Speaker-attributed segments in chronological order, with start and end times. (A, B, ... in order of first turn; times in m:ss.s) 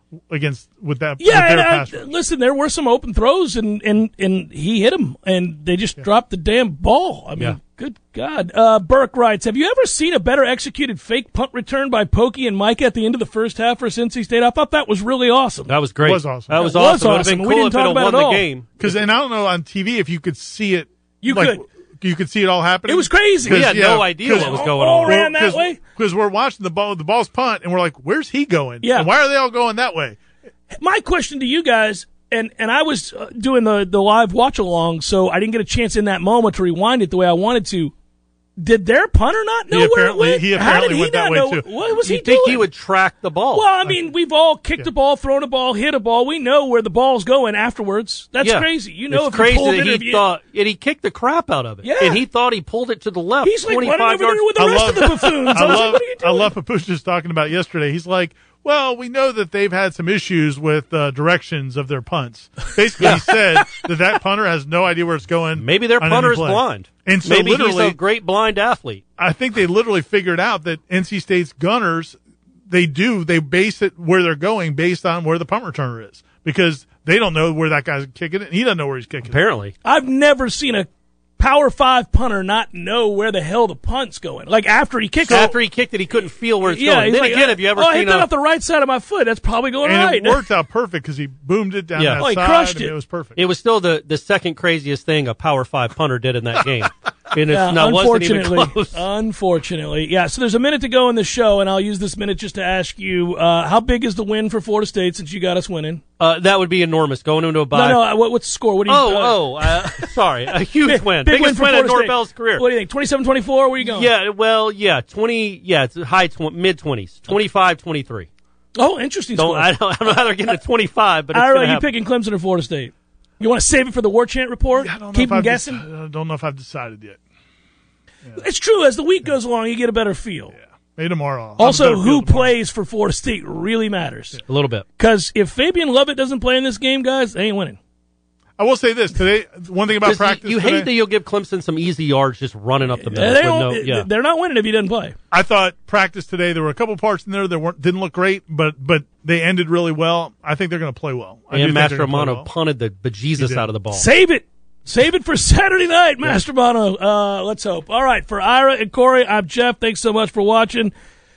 0:00.3-0:02.1 A
0:01.2-0:15.7 B
0:15.7-0:18.8 C
0:16.0-0:16.6 A
0:16.5-0:18.4 B
0:18.8-0:30.2 A
0:21.2-0:21.6 B
0:22.9-0:25.8 B
0:23.5-0:25.2 C
0:28.8-0:29.1 B
0:30.7-0:37.9 B
0:38.6-0:42.6 B
0:39.7-0:41.7 A
0:42.0-0:43.7 C
0:43.5-0:50.2 B
0:43.8-0:44.1 A
0:48.4-0:55.9 C
0:51.8-0:52.2 B
0:53.4-0:56.5 B
0:54.6-1:08.0 A
1:03.0-1:03.3 C
1:05.6-1:09.0 C
1:09.2-1:19.4 A
1:19.2-1:19.7 C
1:19.8-1:25.6 B
1:25.3-1:28.3 C
1:26.6-1:30.4 B
1:29.8-1:33.4 A
1:32.0-1:32.2 C
1:32.2-1:33.0 B
1:33.4-1:39.0 C
1:37.5-1:46.0 B
1:46.2-1:48.1 C
1:47.7-1:50.1 B
1:48.9-1:52.6 C
1:50.8-1:54.1 B
1:53.8-1:58.3 C
1:58.8-2:00.5 B
1:59.4-2:01.9 C
2:01.3-2:05.8 B
2:04.8-2:07.2 A
2:08.4-2:10.6 B
2:10.6-2:12.6 A
2:11.6-2:14.4 B
2:14.5-2:14.8 C
2:15.0-2:17.8 B
2:18.6-2:20.9 A
2:20.0-2:24.1 C
2:23.0-2:25.2 B
2:25.3-2:32.5 A
2:31.5-2:34.1 C
2:33.4-2:33.7 A
2:33.9-2:40.9 B